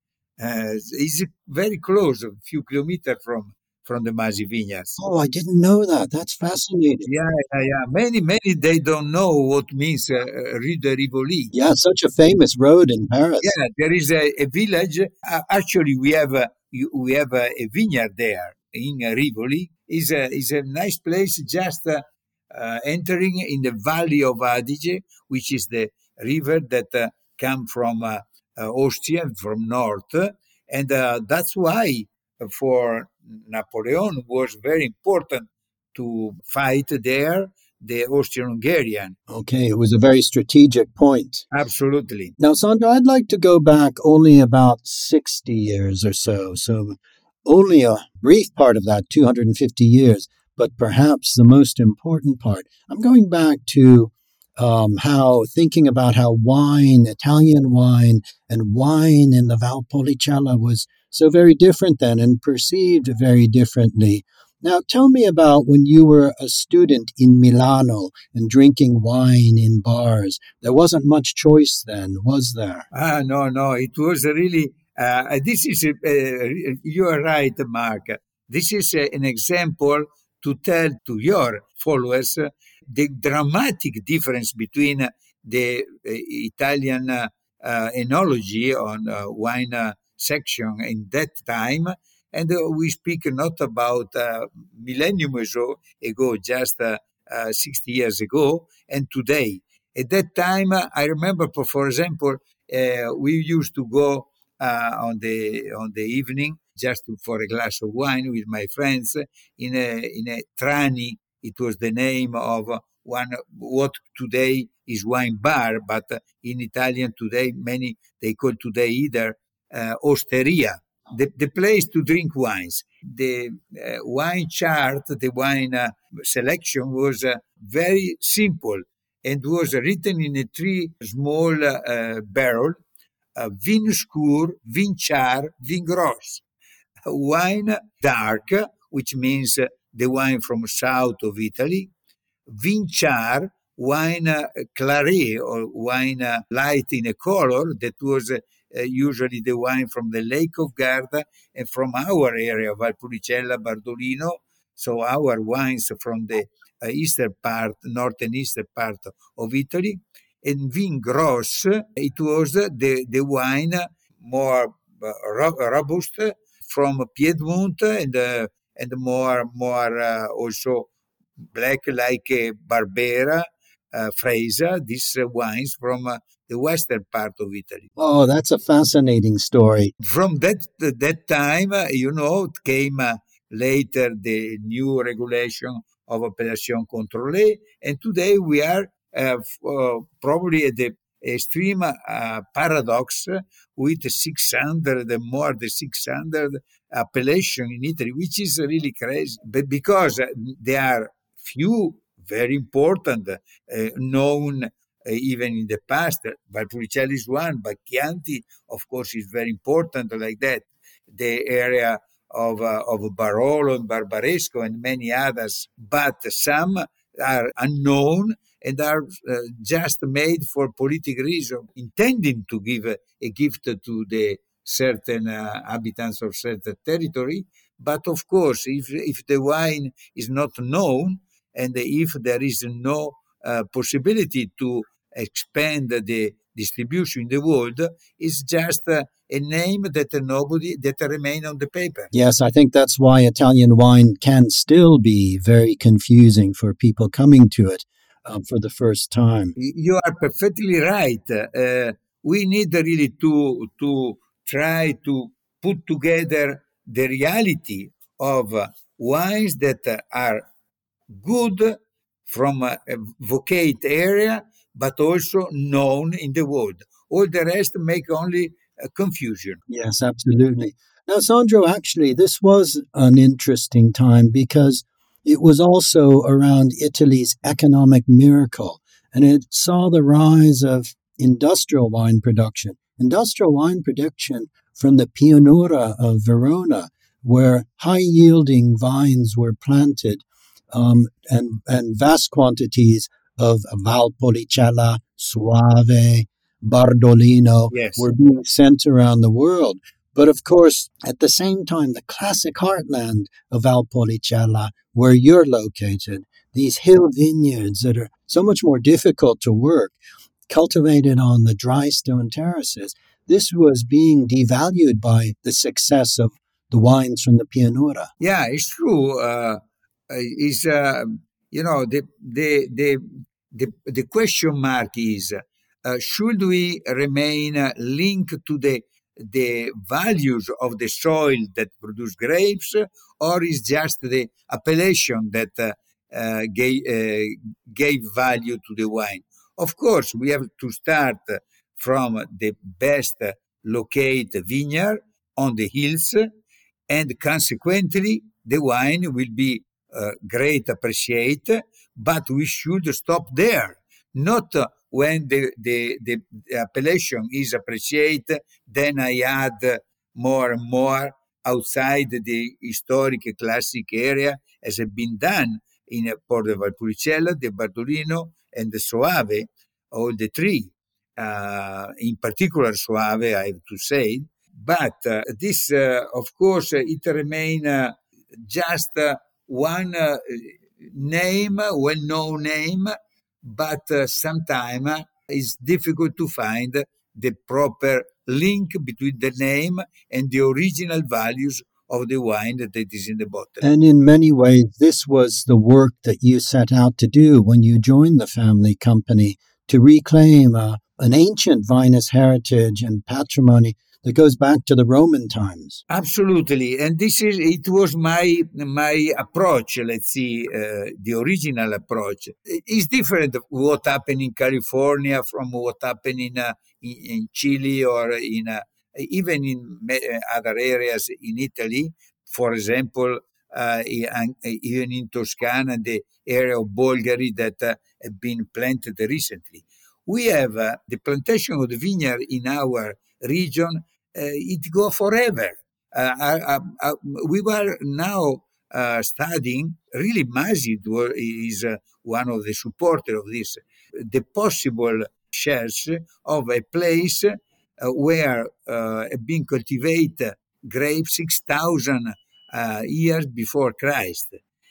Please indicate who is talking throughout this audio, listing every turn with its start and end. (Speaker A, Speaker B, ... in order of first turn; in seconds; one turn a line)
Speaker A: 0.4-5.0
Speaker B: 5.0-7.1
Speaker A: 7.1-11.5
Speaker B: 11.5-13.5
Speaker A: 13.4-39.1
Speaker B: 39.3-41.4
Speaker A: 41.5-42.3
Speaker B: 42.4-72.8
Speaker A: 72.9-132.8
Speaker A: 133.3-136.4
Speaker A: 137.1-141.9
Speaker A: 142.5-170.9
Speaker A: 171.5-177.9
Speaker B: 178.0-179.9
Speaker A: 180.0-242.1
Speaker B: 242.1-249.5
Speaker A: 249.6-260.4
Speaker A: 261.1-269.6
Speaker B: 269.7-310.0
Speaker A: 297.7-298.0
Speaker B: 310.5-318.1
Speaker A: 318.2-346.3
Speaker A: 346.9-393.6
Speaker B: 393.6-405.8
Speaker A: 405.9-454.4